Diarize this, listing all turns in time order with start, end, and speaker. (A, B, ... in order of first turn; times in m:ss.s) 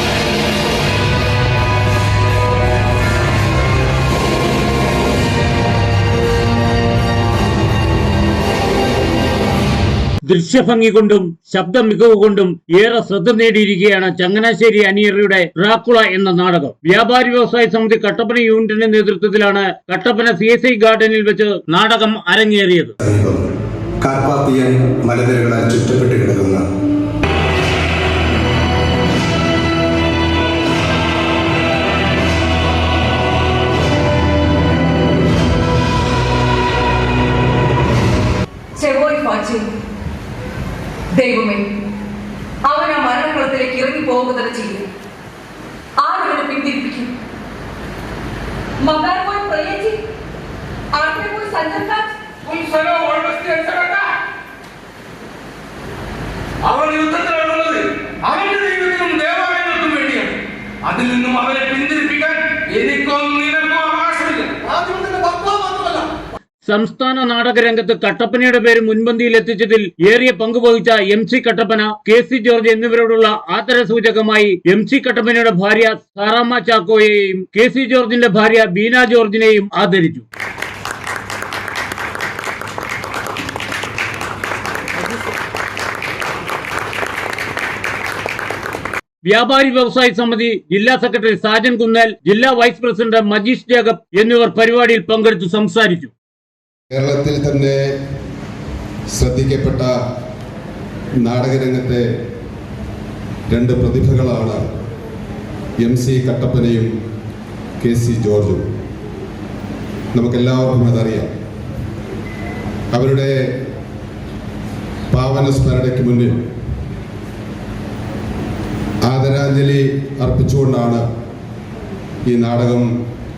0:10.3-0:22.9 A
0:23.0-0:23.5 B
0:24.0-0:26.6 B
0:38.8-0:39.7 C
0:41.1-0:41.7 C
0:42.6-0:44.9 C
0:46.0-0:47.1 C
0:48.8-0:50.0 C
0:50.9-0:52.1 C
0:52.4-0:54.1 D
0:56.6-1:06.1 D
1:06.6-1:20.2 A
1:29.2-1:36.1 A
1:36.9-1:37.8 E
1:39.1-1:39.9 E
1:41.2-1:42.0 E
1:43.5-1:44.6 E
1:45.8-1:46.9 E
1:47.8-1:48.7 E
1:50.1-1:51.3 E
1:52.9-1:53.3 E
1:55.1-1:56.3 E
1:59.0-2:01.0 E
2:02.3-2:02.8 E